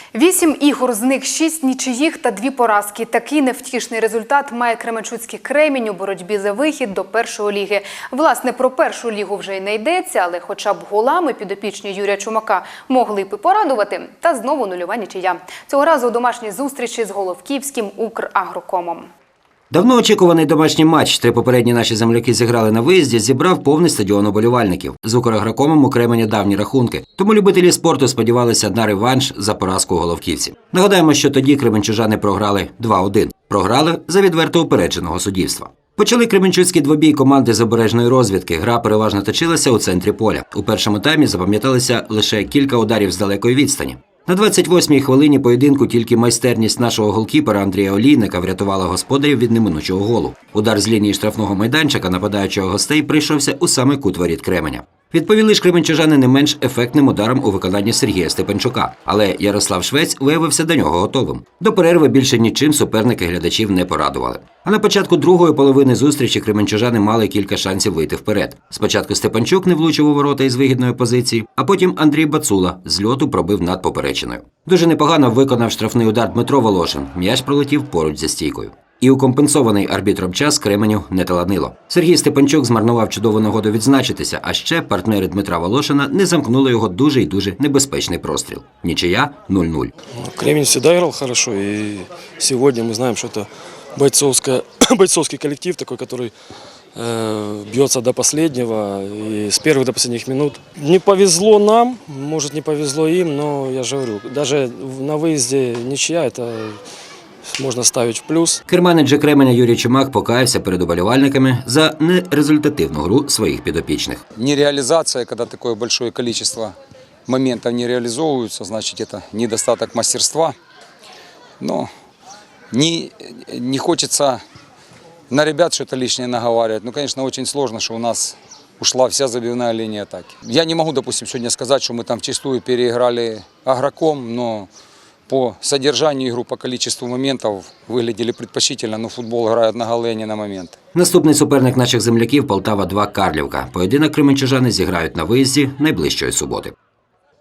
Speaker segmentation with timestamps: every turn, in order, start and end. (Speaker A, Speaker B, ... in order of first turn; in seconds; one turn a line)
Speaker A: 0.1-19.1
Speaker B: 19.7-89.9
Speaker C: 90.2-96.3
Speaker C: 97.0-106.8
Speaker C: 107.5-108.6
Speaker B: 108.7-114.2
Speaker D: 114.4-116.8
Speaker D: 117.3-120.5
Speaker D: 121.6-121.9
Speaker D: 122.7-124.4
Speaker D: 125.3-134.7
Speaker D: 135.3-140.8
Speaker B: 140.9-146.7